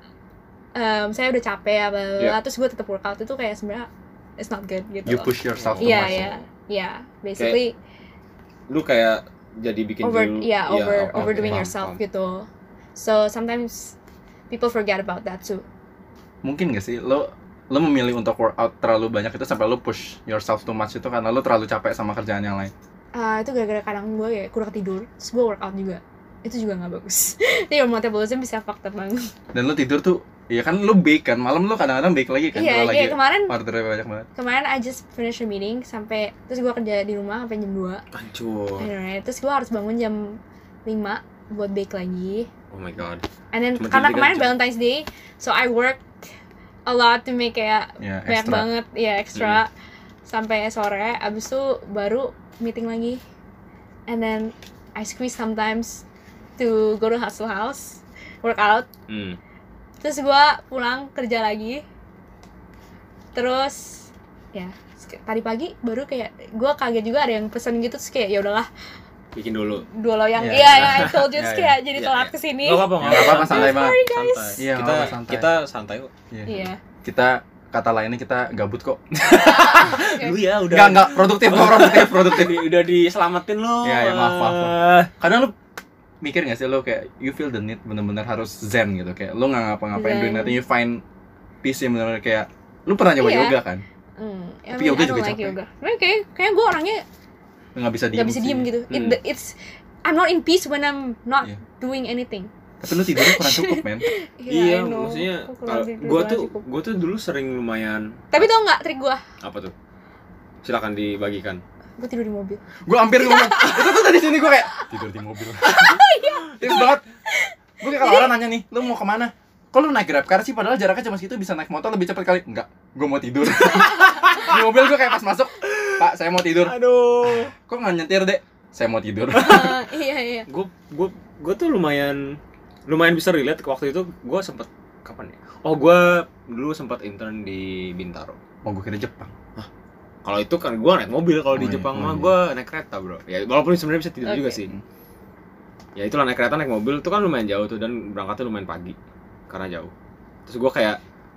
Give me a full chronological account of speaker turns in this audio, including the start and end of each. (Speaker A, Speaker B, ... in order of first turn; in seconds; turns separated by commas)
Speaker A: 0.8-7.7, Speaker B: 5.1-6.3, Speaker C: 5.5-6.4, Speaker C: 8.7-12.0, Speaker A: 10.0-14.0, Speaker B: 11.2-11.7, Speaker A: 14.5-15.7, Speaker B: 16.4-22.7, Speaker A: 23.1-29.3, Speaker B: 29.5-34.3, Speaker A: 32.5-33.5, Speaker A: 34.4-38.0, Speaker C: 38.1-38.9, Speaker A: 38.8-42.5, Speaker C: 42.7-43.2, Speaker A: 43.5-46.0, Speaker C: 43.8-44.5, Speaker A: 46.9-49.7, Speaker B: 48.0-48.7, Speaker C: 49.4-49.6, Speaker A: 50.3-53.2, Speaker A: 54.1-56.0, Speaker A: 56.6-58.9, Speaker C: 59.1-59.4, Speaker A: 60.0-61.8, Speaker A: 63.3-68.7, Speaker C: 69.3-69.9, Speaker A: 69.9-74.7, Speaker B: 70.4-71.8, Speaker C: 70.6-71.3, Speaker C: 72.0-76.6, Speaker B: 73.0-74.0, Speaker B: 74.6-75.5, Speaker A: 76.5-76.8, Speaker B: 77.0-80.1, Speaker C: 79.2-85.1, Speaker A: 79.5-80.4, Speaker B: 80.7-82.7, Speaker B: 83.8-85.5, Speaker B: 86.2-91.0, Speaker A: 89.9-90.6, Speaker B: 91.6-93.8, Speaker A: 93.2-93.6, Speaker A: 94.2-97.0, Speaker B: 94.8-95.6, Speaker B: 97.8-98.7, Speaker A: 98.1-102.5, Speaker C: 98.9-99.2, Speaker B: 102.8-104.1, Speaker A: 103.1-106.7, Speaker C: 104.5-108.5, Speaker A: 108.3-109.2, Speaker C: 109.4-109.7, Speaker C: 110.6-111.6, Speaker A: 112.0-112.6, Speaker B: 112.8-116.0, Speaker A: 113.2-114.1, Speaker A: 115.6-118.3, Speaker B: 116.6-117.0, Speaker B: 117.8-129.8, Speaker C: 125.7-127.5, Speaker A: 129.3-130.5, Speaker C: 130.5-138.4, Speaker B: 138.6-139.3, Speaker C: 140.2-144.7, Speaker B: 141.5-142.3, Speaker A: 144.2-144.6, Speaker C: 146.0-149.0, Speaker C: 149.5-149.9, Speaker C: 150.5-151.0